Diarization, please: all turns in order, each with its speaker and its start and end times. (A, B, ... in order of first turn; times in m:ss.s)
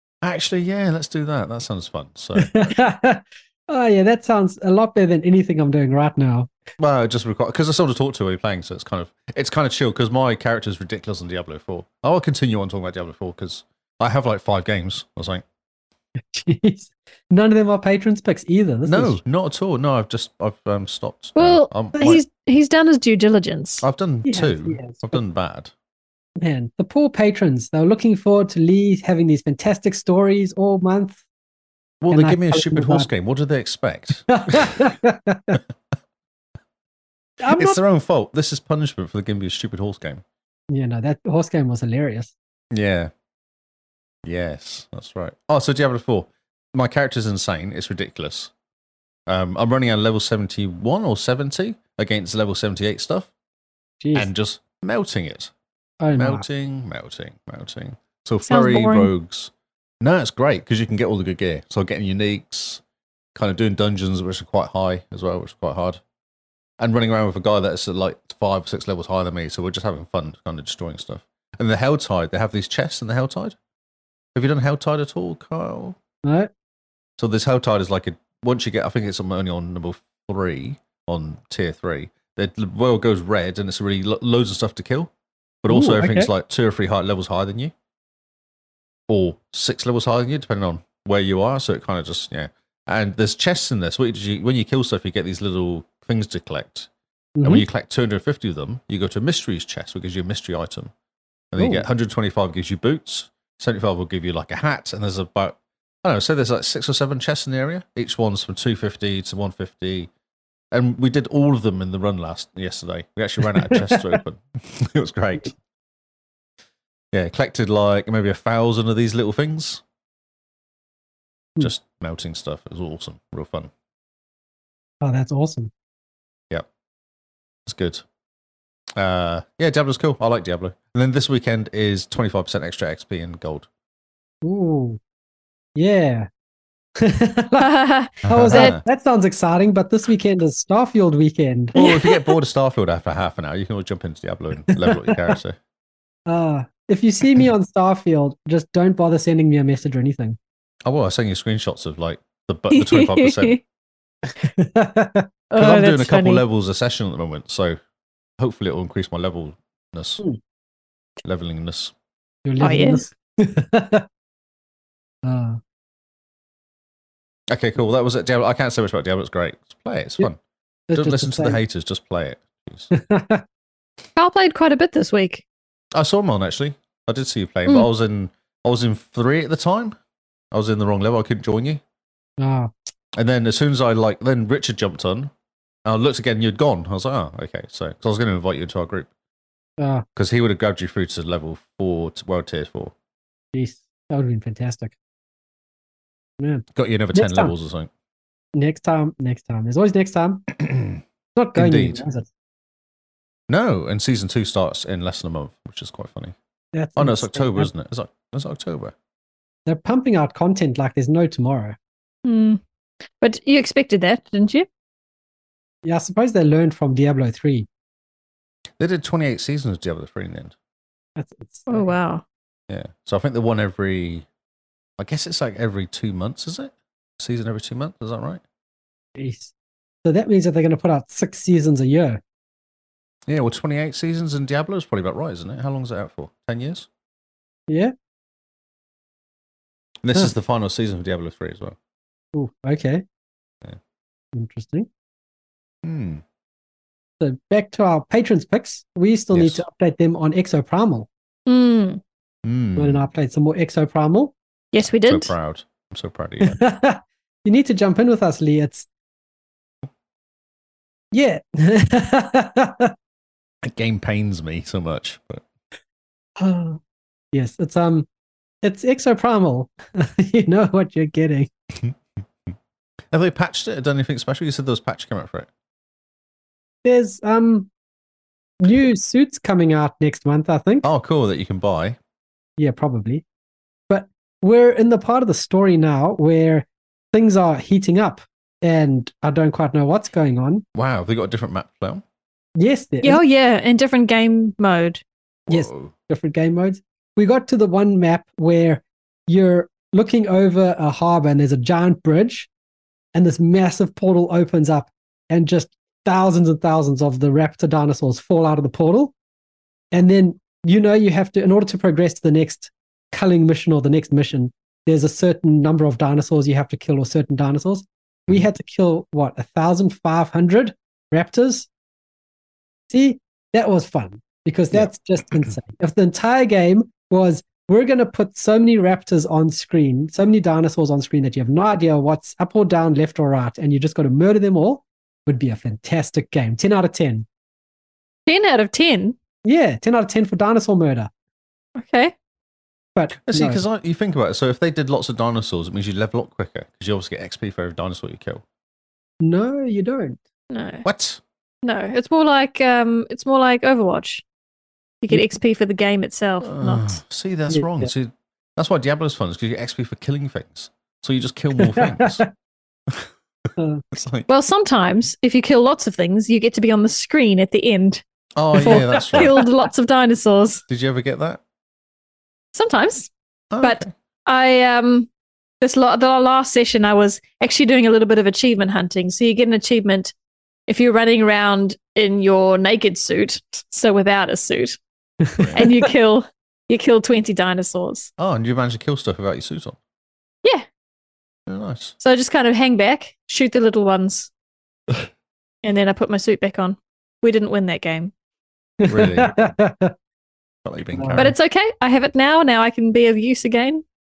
0:00.2-0:02.7 A
0:02.4-0:06.5 B
0:06.8-0:15.4 A
0:16.2-0:19.2 B
0:18.8-0:22.2 A
0:21.4-0:23.8 C
0:23.8-0:25.7 A
0:24.2-0:25.2 B
0:26.4-0:31.2 B
0:32.0-0:34.8 A
0:32.1-0:33.1 B
0:34.3-0:35.6 B
0:37.4-0:37.8 B
0:37.5-0:40.2 A
0:40.7-0:42.3 B
0:42.7-0:43.1 A
0:44.2-0:48.5 A
0:49.3-0:53.3 A
0:54.0-0:54.3 B
0:54.1-0:55.5 A
0:56.0-0:56.4 B
0:56.2-1:02.8 A
0:58.4-0:59.1 C
1:03.3-1:06.0 A
1:06.8-1:13.6 A
1:14.3-1:16.0 A
1:16.2-1:16.5 B
1:17.2-1:25.1 A
1:25.6-1:27.7 A
1:25.7-1:26.3 B
1:29.1-1:36.9 A
1:37.4-1:37.6 B
1:37.4-1:40.9 A
1:41.5-1:50.1 A
1:41.6-1:41.8 B
1:50.7-1:55.5 A
1:53.4-1:54.2 B
1:57.1-1:59.8 A
2:01.6-2:03.7 A
2:05.0-2:05.7 B
2:07.6-2:08.0 A
2:09.0-2:13.7 A
2:14.4-2:15.0 B
2:15.8-2:16.3 B
2:17.0-2:17.7 B
2:17.6-2:18.8 C
2:18.2-2:18.8 A
2:18.3-2:21.7 B
2:21.7-2:25.6 A
2:21.8-2:22.3 C
2:24.7-2:25.2 B
2:26.3-2:30.4 B
2:30.8-2:33.6 A
2:32.7-2:33.6 C
2:34.4-2:35.3 B
2:35.5-2:36.4 C
2:35.6-2:37.8 A
2:38.4-2:40.2 A
2:41.2-2:41.9 A
2:42.4-2:44.0 B
2:42.6-2:43.0 C
2:45.2-2:45.6 B
2:47.5-2:50.4 A
2:50.9-2:51.6 B
2:50.9-2:52.9 A
2:52.9-2:53.4 B
2:54.2-2:55.4 C
2:55.9-2:59.9 A
3:00.5-3:01.8 A
3:02.4-3:02.7 B
3:03.2-3:05.3 A
3:05.8-3:09.1 A
3:09.8-3:10.0 B
3:10.2-3:12.9 A
3:13.5-3:14.9 B
3:16.4-3:17.5 B
3:16.7-3:17.9 A
3:18.5-3:20.4 B
3:20.6-3:21.0 A
3:21.3-3:22.3 B
3:21.6-3:22.0 A
3:23.5-3:26.3 A
3:26.7-3:27.7 B
3:27.0-3:28.9 A
3:29.6-3:31.8 B
3:32.2-3:32.6 C
3:33.2-3:34.7 C
3:35.8-3:37.7 B
3:38.8-3:40.5 A
3:41.2-3:41.9 B
3:41.7-3:42.2 C
3:42.7-3:44.2 A
3:45.0-3:48.4 A
3:49.2-3:49.5 B
3:50.0-3:52.2 B
3:53.3-3:56.9 A
4:00.0-4:01.8 A
4:02.3-4:03.0 B
4:04.3-4:04.9 B
4:05.8-4:06.2 A
4:07.2-4:11.1 B
4:09.3-4:09.6 A
4:11.4-4:12.0 C
4:12.4-4:13.0 A
4:12.8-4:14.3 B
4:14.7-4:15.3 C
4:14.8-4:16.6 A
4:16.4-4:18.9 B
4:21.1-4:22.9 B
4:23.6-4:25.4 A
4:26.4-4:26.8 B
4:27.3-4:28.1 B
4:28.6-4:31.5 B
4:33.1-4:35.5 A
4:36.8-4:37.7 B
4:38.6-4:40.8 B
4:40.8-4:42.0 A
4:42.6-4:43.2 B
4:43.9-4:50.6 B
4:50.7-4:52.0 A
4:52.6-4:53.2 B
4:53.0-4:55.0 C
4:55.5-4:55.9 A
4:55.5-5:02.5 B
5:03.1-5:09.1 B
5:09.9-5:21.7 B
5:22.9-5:37.3 B
5:24.7-5:25.5 A
5:38.3-5:39.2 C
5:39.4-5:41.1 B
5:41.8-5:42.1 C
5:42.9-5:43.6 B
5:43.2-5:48.4 A
5:49.2-5:50.2 B
5:50.5-5:50.8 C
5:50.8-5:51.2 A
5:51.6-5:54.2 C
5:55.0-5:57.0 C
5:56.4-6:02.2 A
5:57.5-5:57.9 B
6:01.6-6:02.3 B
6:03.6-6:03.8 B
6:03.9-6:04.3 A
6:04.3-6:08.0 C
6:08.4-6:09.3 A
6:08.6-6:09.4 B
6:08.6-6:10.6 C
6:10.7-6:11.4 A
6:12.5-6:13.1 C
6:13.5-6:13.9 A
6:13.6-6:15.1 C
6:15.6-6:20.1 C
6:20.7-6:24.8 C
6:25.2-6:25.5 B
6:25.4-6:25.7 A
6:25.5-6:28.1 C
6:28.2-6:29.8 A
6:31.5-6:32.0 A
6:32.0-6:34.3 C
6:35.6-6:38.1 C
6:38.8-6:39.9 B
6:38.9-6:39.5 A
6:40.6-6:41.3 A
6:40.9-6:41.3 B
6:41.2-6:43.8 C